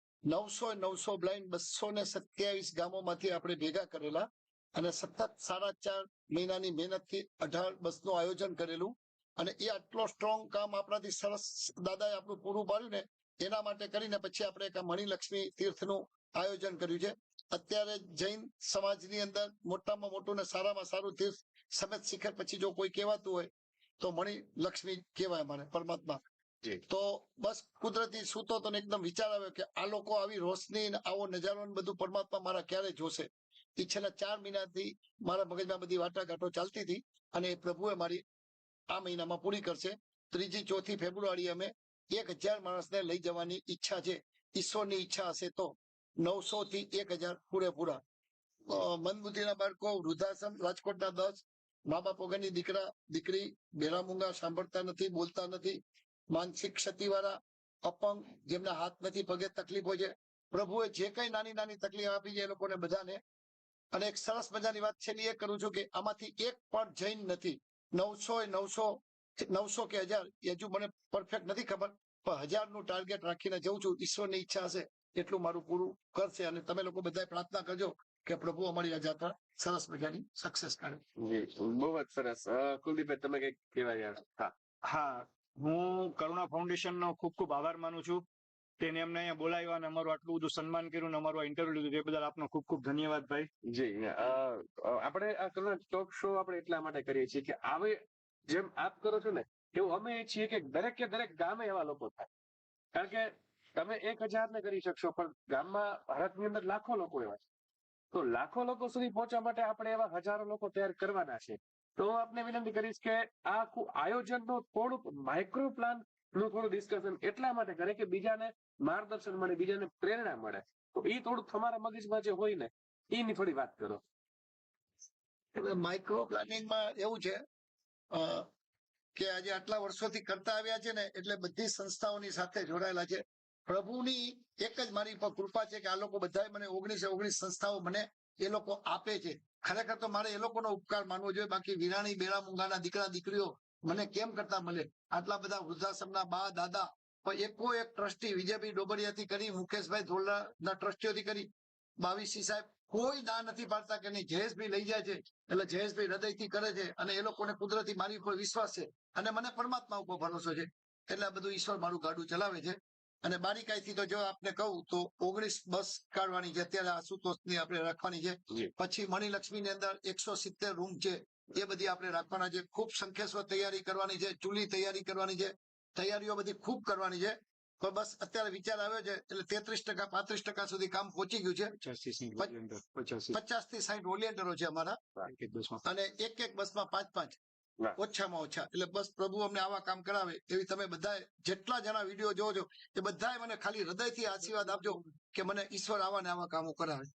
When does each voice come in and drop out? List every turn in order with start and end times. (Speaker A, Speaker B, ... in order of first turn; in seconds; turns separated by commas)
Speaker A: 0.3-26.2, Speaker A: 26.9-38.2, Speaker A: 38.9-48.0, Speaker A: 48.7-55.8, Speaker A: 56.3-63.2, Speaker A: 63.9-81.0, Speaker B: 81.2-84.5, Speaker C: 84.8-88.2, Speaker C: 88.8-93.5, Speaker B: 93.7-102.3, Speaker B: 102.9-107.4, Speaker B: 108.1-124.0, Speaker A: 125.5-127.4, Speaker A: 128.1-128.5, Speaker A: 129.1-181.7, Speaker C: 181.8-183.4, Speaker A: 183.3-185.0, Speaker C: 185.3-185.8, Speaker A: 185.8-187.4, Speaker A: 188.0-197.1